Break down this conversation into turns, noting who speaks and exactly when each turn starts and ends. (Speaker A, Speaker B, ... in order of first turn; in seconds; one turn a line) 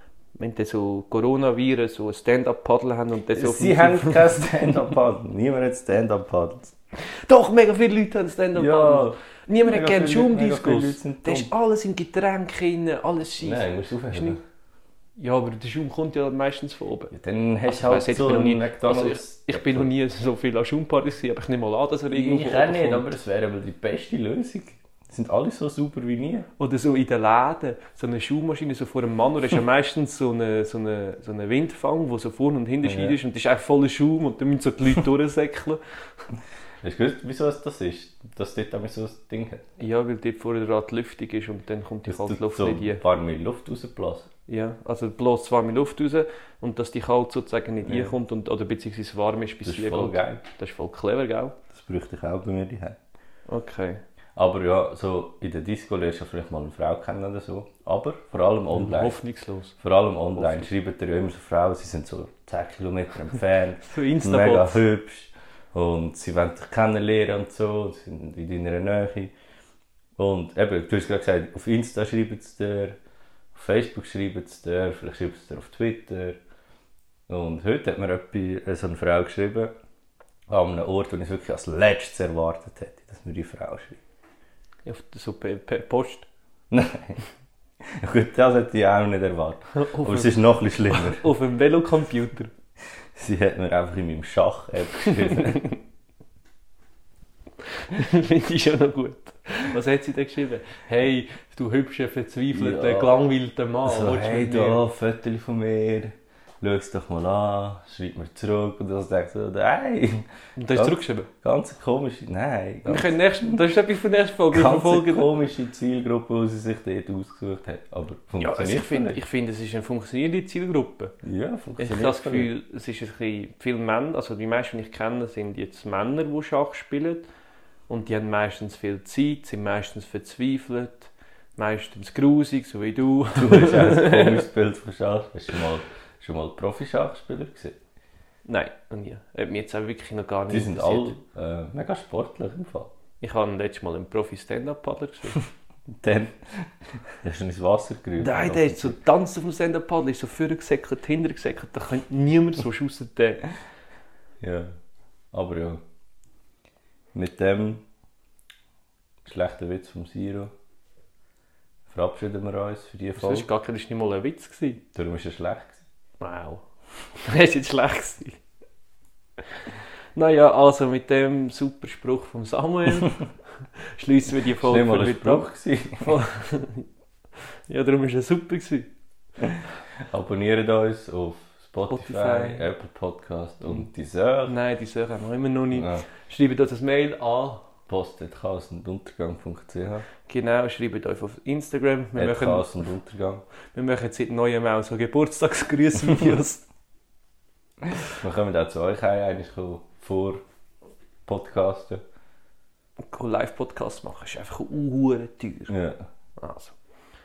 Speaker A: 0.4-4.8
Speaker B: 3.4-6.7
Speaker A: 7.0-14.4
Speaker B: 8.6-11.5
Speaker B: 13.4-14.4
Speaker A: 15.2-17.1
Speaker B: 17.1-19.9
Speaker A: 17.7-23.1
Speaker B: 22.1-26.5
Speaker A: 26.6-35.8
Speaker B: 32.8-33.2
Speaker B: 36.8-39.6
Speaker A: 39.8-43.0
Speaker B: 42.1-44.3
Speaker A: 44.5-51.6
Speaker B: 47.8-48.2
Speaker B: 49.6-50.4
Speaker B: 51.7-53.0
Speaker A: 53.5-54.0
Speaker B: 54.4-59.2
Speaker A: 58.7-59.8
Speaker B: 59.8-69.3
Speaker A: 60.4-60.7
Speaker A: 63.9-64.8
Speaker B: 70.2-73.0
Speaker B: 73.5-76.4
Speaker B: 77.3-79.7
Speaker B: 80.5-84.0
Speaker A: 84.9-86.3
Speaker B: 86.7-87.2
Speaker B: 87.8-91.3
Speaker A: 89.7-92.5
Speaker B: 93.2-95.6
Speaker A: 95.1-95.8
Speaker A: 97.7-104.8
Speaker B: 102.5-103.2
Speaker B: 103.8-113.6
Speaker A: 110.6-111.3
Speaker A: 112.9-115.3
Speaker B: 114.5-119.2
Speaker A: 118.4-121.2
Speaker B: 121.2-122.5
Speaker A: 121.8-127.3
Speaker A: 127.9-134.5
Speaker B: 133.3-137.8
Speaker A: 138.5-141.2
Speaker B: 140.5-142.9
Speaker A: 143.2-145.4
Speaker B: 145.9-149.0
Speaker A: 148.2-153.5
Speaker B: 154.4-154.7
Speaker B: 155.3-155.8
Speaker B: 157.1-157.8
Speaker B: 159.2-160.5
Speaker B: 161.9-163.5
Speaker A: 163.2-164.8
Speaker B: 164.9-165.8
Speaker A: 166.2-166.7
Speaker A: 167.2-168.4
Speaker A: 170.2-173.2
Speaker A: 173.9-175.5
Speaker B: 174.6-176.2
Speaker A: 176.0-176.9
Speaker A: 177.7-178.9
Speaker B: 179.4-184.6
Speaker A: 181.9-182.7
Speaker A: 184.5-187.7
Speaker B: 185.7-186.1
Speaker B: 187.9-190.1
Speaker A: 190.3-192.7
Speaker B: 192.2-193.4
Speaker A: 193.7-196.7
Speaker B: 197.8-200.4
Speaker B: 201.3-202.0
Speaker A: 203.1-205.8
Speaker B: 205.7-206.0
Speaker A: 206.4-206.8